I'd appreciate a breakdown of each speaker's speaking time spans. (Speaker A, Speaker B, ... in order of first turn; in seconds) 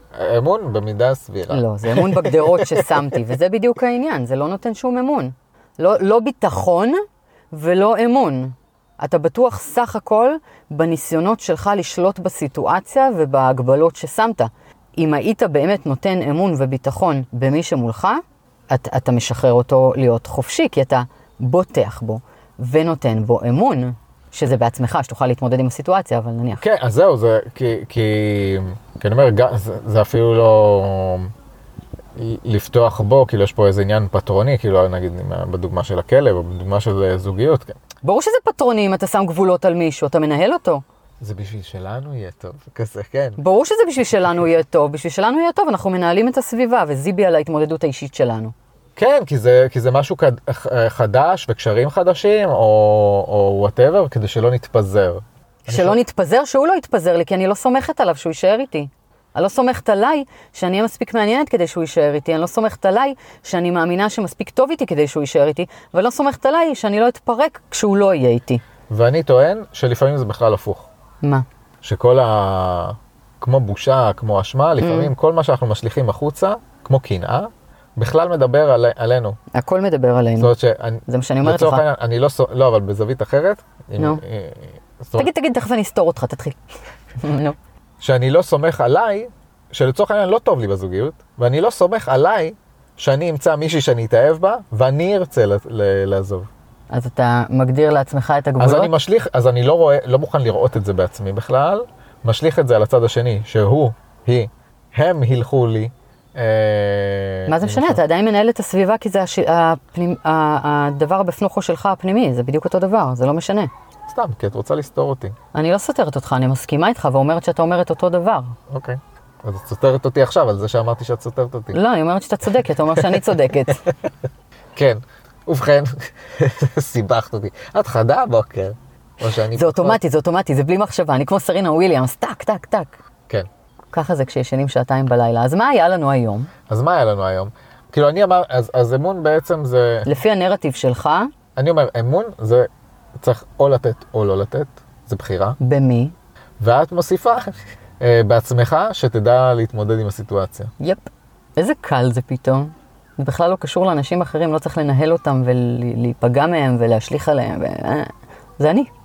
Speaker A: 0.1-3.1, 26.6-31.3, 32.1-37.8, 41.2-43.4, 49.0-56.0, 68.9-70.9, 71.8-79.4, 80.4-85.3, 88.0-96.5, 98.6-108.0, 114.1-115.3, 118.7-121.8, 122.9-123.9, 124.8-130.0, 136.7-140.1, 141.6-145.6, 146.6-150.7
Speaker B: 1.5-26.6, 38.0-40.8, 43.4-48.5, 55.6-68.6, 74.8-75.1, 79.5-80.5, 81.1-81.8, 85.2-86.6, 87.2-87.5, 96.9-98.9, 107.5-113.7, 115.5-118.6, 121.7-123.8, 129.5-133.0, 133.9-136.5, 140.1-141.3, 145.6-146.1, 150.8-151.1, 151.6-158.9